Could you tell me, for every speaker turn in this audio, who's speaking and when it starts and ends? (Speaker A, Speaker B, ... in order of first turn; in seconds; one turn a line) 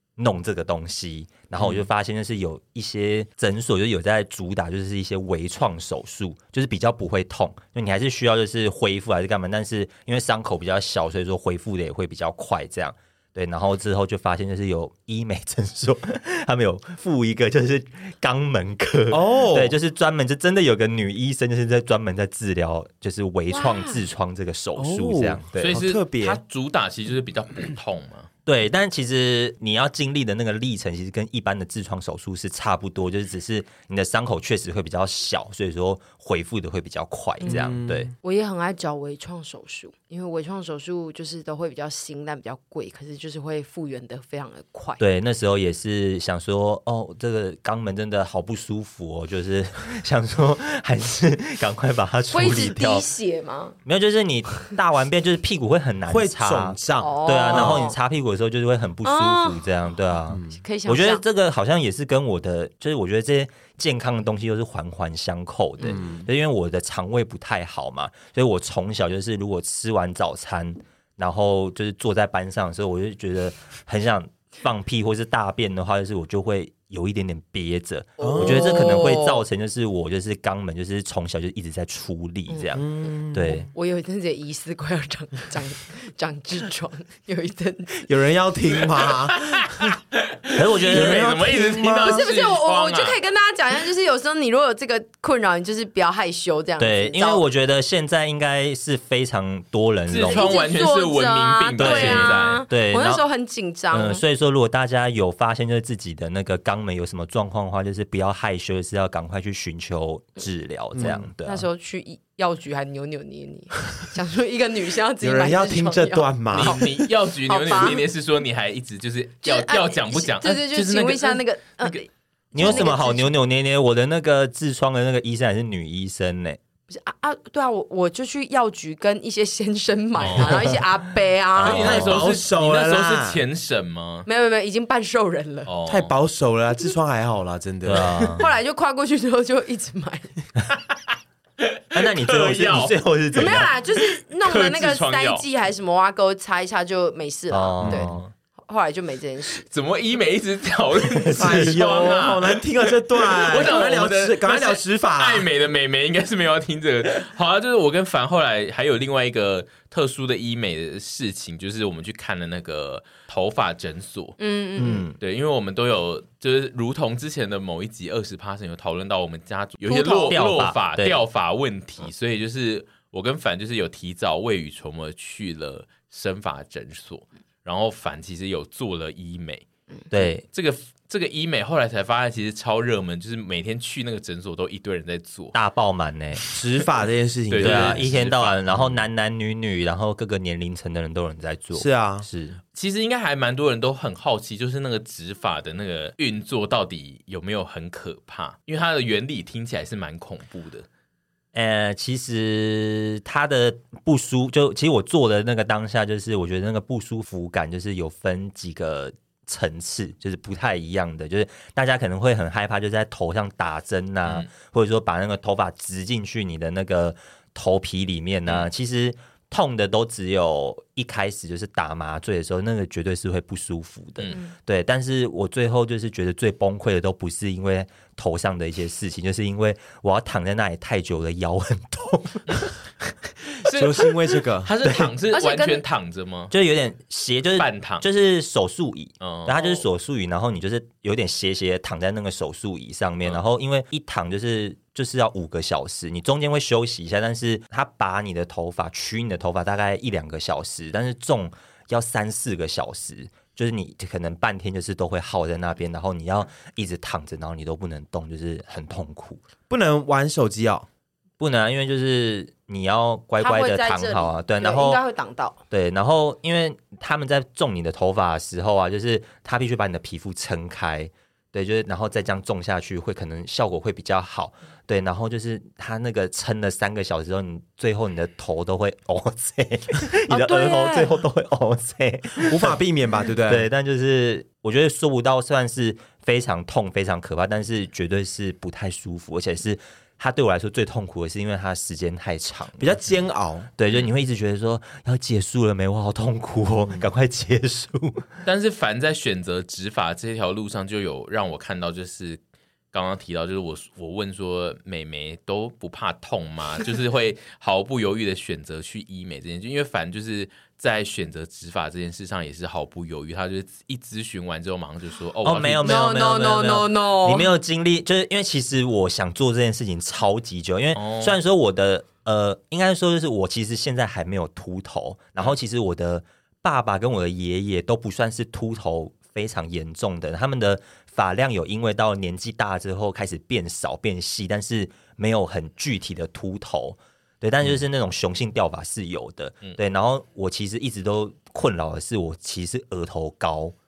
Speaker A: 0.2-25.8
Speaker B: 1.6-1.9
Speaker B: 19.1-19.8
Speaker C: 23.5-24.0
Speaker B: 24.8-26.4
Speaker D: 25.6-28.3
Speaker A: 28.5-38.1
Speaker C: 37.4-37.7
Speaker B: 37.5-38.1
Speaker C: 38.2-45.0
Speaker A: 45.0-53.0
Speaker C: 52.3-53.8
Speaker A: 53.9-83.7
Speaker B: 56.1-57.9
Speaker C: 57.0-58.0
Speaker C: 59.0-59.6
Speaker B: 60.3-60.6
Speaker C: 60.5-61.2
Speaker B: 65.8-66.3
Speaker C: 78.2-79.4
Speaker B: 78.2-79.0
Speaker C: 82.5-82.8
Speaker B: 82.8-83.7
Speaker C: 83.7-88.0
Speaker B: 88.0-90.0
Speaker D: 89.3-93.2
Speaker A: 90.5-91.3
Speaker B: 90.9-92.2
Speaker C: 92.0-97.4
Speaker A: 96.8-100.6
Speaker D: 100.1-102.7
Speaker C: 100.2-104.2
Speaker A: 101.8-103.2
Speaker A: 103.9-111.7
Speaker B: 110.9-111.2
Speaker C: 111.0-118.0
Speaker B: 115.2-117.0
Speaker D: 116.5-122.0
Speaker C: 119.4-123.3
Speaker A: 122.5-126.6
Speaker D: 122.6-122.9
Speaker C: 126.9-132.0
Speaker D: 130.2-130.8
Speaker A: 131.6-132.3
Speaker D: 131.6-134.3
Speaker B: 131.7-133.4
Speaker C: 134.3-135.7
Speaker D: 135.7-136.1
Speaker B: 135.9-138.4
Speaker A: 137.8-138.5
Speaker C: 138.2-140.3
Speaker D: 141.6-145.4
Speaker A: 141.9-143.7
Speaker C: 143.3-149.7
Speaker A: 147.5-148.3
Speaker B: 147.8-148.1
Speaker D: 149.7-164.4
Speaker A: 151.1-152.1
Speaker B: 151.3-155.5
Speaker C: 164.4-165.1
Speaker A: 164.8-165.2
Speaker D: 165.2-179.7
Speaker A: 169.8-171.2
Speaker A: 180.1-180.4
Speaker D: 180.5-185.6
Speaker A: 185.5-186.5
Speaker B: 186.5-188.1
Speaker D: 187.5-188.7
Speaker A: 187.6-192.6
Speaker B: 191.7-192.3
Speaker D: 192.8-200.9
Speaker A: 201.5-232.7
Speaker D: 233.7-234.1
Speaker B: 233.7-234.7
Speaker D: 234.6-236.5
Speaker A: 234.8-235.1
Speaker C: 235.3-235.8
Speaker A: 236.5-259.4
Speaker D: 237.6-238.1
Speaker D: 239.2-239.8
Speaker B: 259.7-260.9
Speaker A: 261.4-265.0
Speaker C: 263.4-265.6
Speaker A: 265.7-282.8
Speaker C: 280.3-281.1
Speaker B: 282.4-283.7
Speaker A: 283.5-293.0
Speaker B: 292.8-293.7
Speaker A: 293.8-298.3
Speaker D: 298.4-302.4
Speaker D: 302.9-316.0
Speaker A: 315.4-343.8
Speaker C: 315.8-317.5
Speaker D: 320.9-321.4